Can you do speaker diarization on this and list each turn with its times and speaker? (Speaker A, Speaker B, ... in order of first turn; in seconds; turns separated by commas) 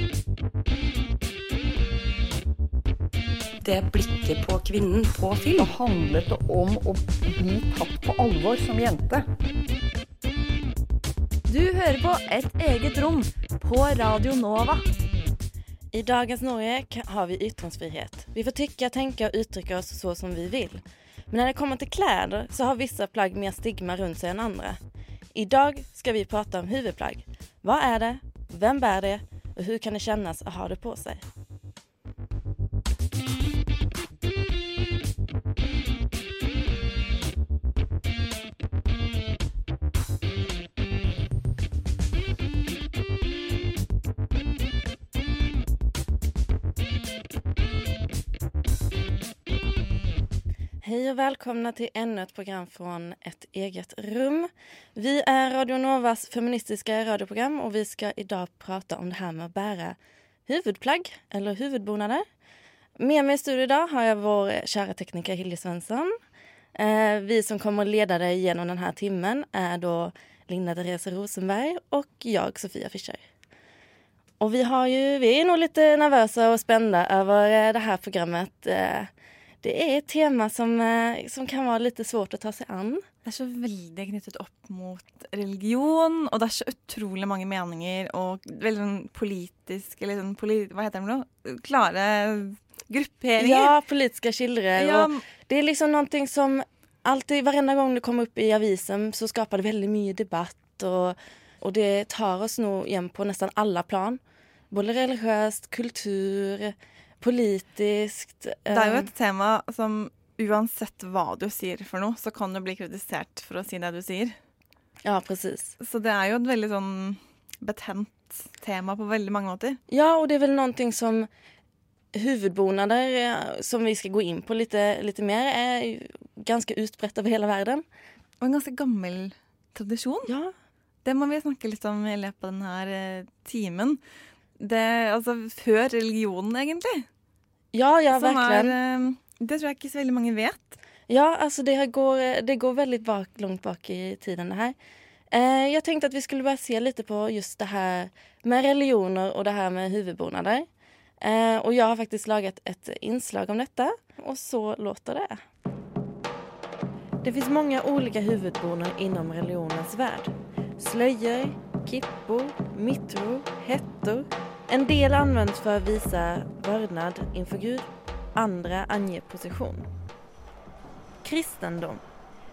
Speaker A: 3.6-5.7, Speaker B: 5.5-9.3, Speaker C: 15.9-24.8, Speaker C: 25.3-31.3, Speaker C: 50.8-62.3, Speaker C: 63.0-66.2, Speaker C: 66.8-73.2, Speaker C: 74.4-79.1, Speaker C: 79.6-83.1, Speaker D: 83.2-93.7, Speaker C: 93.4-109.1, Speaker D: 94.8-95.2, Speaker D: 108.7-114.4, Speaker C: 115.0-115.8, Speaker D: 115.8-119.8, Speaker C: 119.9-121.3, Speaker C: 122.1-127.9, Speaker D: 128.4-130.3, Speaker C: 130.3-130.5, Speaker D: 131.1-134.0, Speaker D: 134.6-137.1, Speaker C: 137.7-138.8, Speaker D: 138.1-140.8, Speaker C: 141.1-144.8, Speaker C: 145.3-150.7, Speaker C: 151.2-155.4, Speaker C: 157.2-169.9, Speaker C: 171.2-172.0